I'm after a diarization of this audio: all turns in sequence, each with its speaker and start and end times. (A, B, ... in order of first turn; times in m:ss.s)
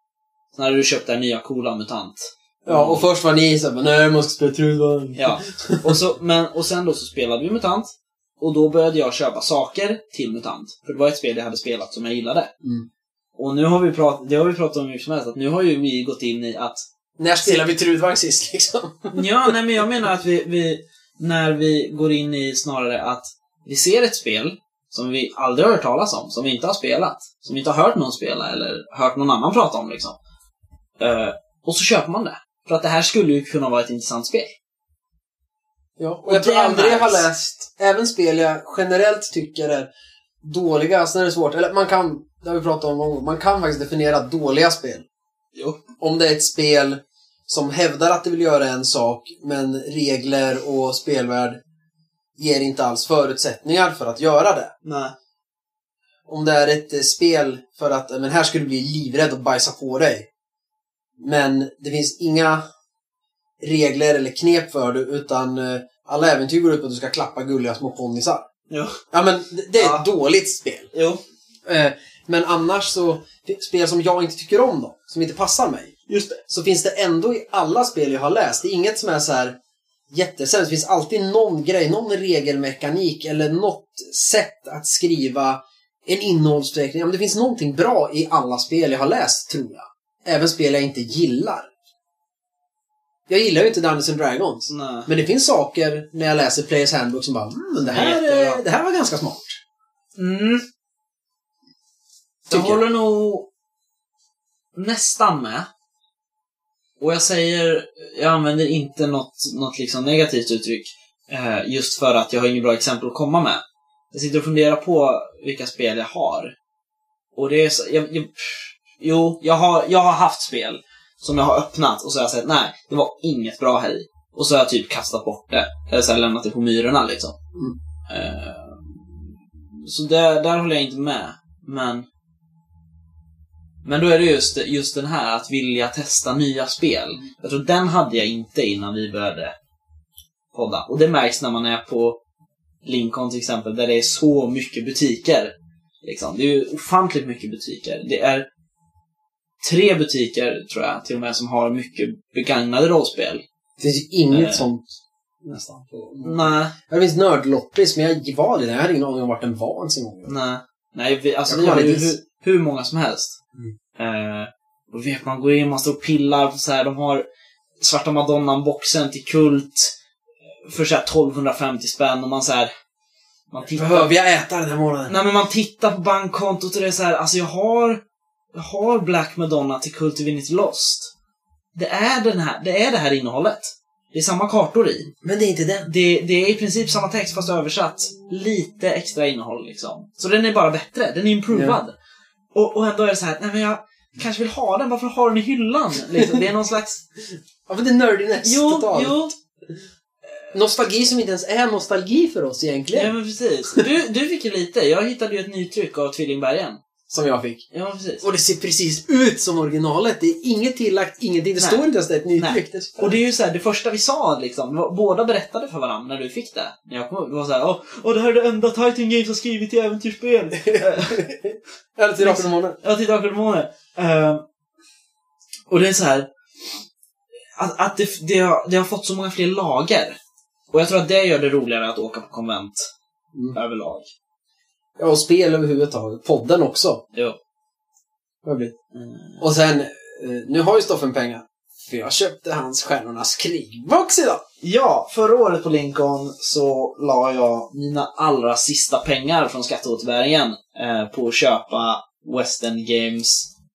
0:00.5-0:03.0 A
0:02.6-0:06.0 B
0:05.2-0:12.5 A
0:13.4-0:16.8 A
0:17.2-0:19.5 B
0:19.1-0:30.2 A
0:31.0-0:34.5 A
0:36.0-0:39.9 B
0:36.2-0:37.3 A
0:40.4-0:45.0 B
0:45.6-0:45.8 A
0:46.0-0:51.6 B
0:52.4-0:54.7 B
0:54.8-0:55.1 A
0:56.3-1:00.3 B
1:01.2-1:02.6 B
1:03.6-1:08.4 B
1:08.7-1:09.0 A
1:09.1-1:10.9 B
1:09.8-1:10.0 A
1:10.9-1:11.2 A
1:11.7-1:15.9 B
1:16.1-1:16.4 A
1:16.5-1:19.6 B
1:20.1-1:31.7 B
1:33.3-1:39.6 B
1:34.7-1:35.1 A
1:37.9-1:38.6 A
1:40.2-1:40.6 A
1:42.5-1:43.5 A
1:42.5-1:42.8 B
1:44.8-1:45.7 A
1:47.0-1:56.5 A
1:57.4-2:07.4 A
2:08.1-2:12.0 A
2:13.8-2:19.5 A
2:20.5-2:22.2 A
2:22.8-2:28.5 A
2:29.6-2:33.4 A
2:33.8-2:34.9 B
2:34.3-2:34.6 A
2:35.4-2:40.3 B
2:36.2-2:36.7 A
2:40.2-2:43.4 A
2:41.5-2:42.1 B
2:44.0-2:47.2 A
2:47.8-2:49.9 A
2:50.6-2:52.7 A
2:53.5-2:54.1 A
2:53.7-2:55.1 B
2:55.1-2:58.0 A
2:58.5-3:01.1 A
3:01.7-3:05.1 A
3:05.2-3:05.9 B
3:05.9-3:11.9 A
3:11.5-3:11.8 B
3:12.5-3:17.0 A
3:17.7-3:19.3 B
3:18.4-3:19.3 A
3:20.5-3:23.1 B
3:22.9-3:26.8 A
3:27.1-3:27.6 B
3:27.7-3:28.2 A
3:28.2-3:33.2 B
3:31.6-3:31.8 A
3:32.4-3:41.2 A
3:40.5-3:42.8 B
3:42.2-3:44.4 A
3:45.7-3:46.3 A
3:47.6-3:50.2 A
3:50.7-3:52.9 A
3:53.5-3:54.1 A
3:55.0-3:57.0 B
3:58.4-3:58.7 B
3:58.9-3:59.4 A
3:59.4-4:04.4 B
4:04.6-4:13.5 A